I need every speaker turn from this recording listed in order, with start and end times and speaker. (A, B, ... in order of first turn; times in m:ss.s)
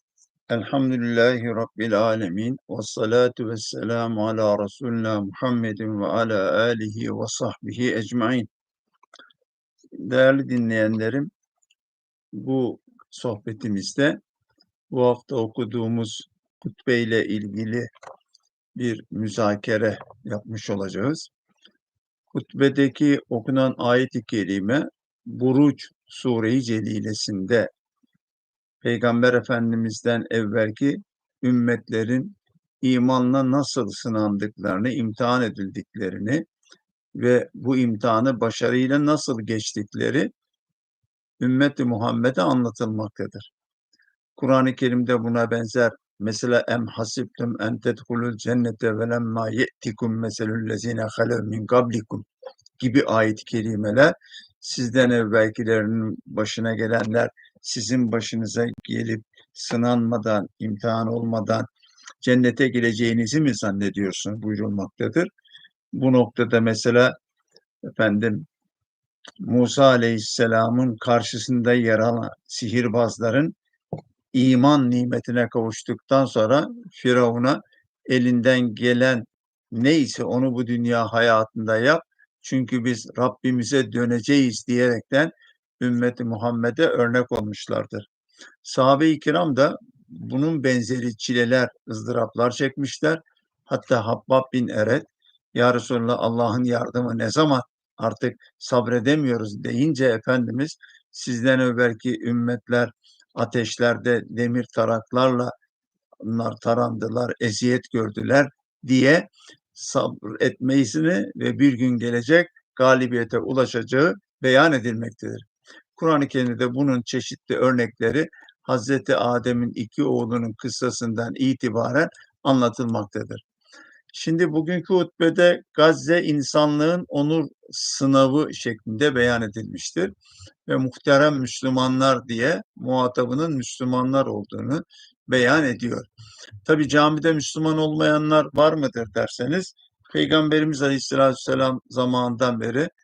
0:00.5-0:08.5 A
0:10.0-0:11.3 A
0:12.3-0:14.2 A
0:14.9-0:17.9 A
0:18.8-0:21.3 A
0:22.3-0:27.7 A
0:28.8-0:36.4 A
0:37.2-0:40.3 A
0:41.4-0:43.5 A
0:44.4-0:52.3 A
0:52.8-1:01.7 A
1:02.2-1:05.3 A
1:05.9-1:07.2 A
1:07.9-1:08.5 A
1:09.4-1:13.6 A
1:14.3-1:28.1 A
1:28.6-1:45.5 A
1:46.2-2:03.4 A
2:04.1-2:10.1 A
2:10.7-2:16.1 A
2:16.6-2:22.9 A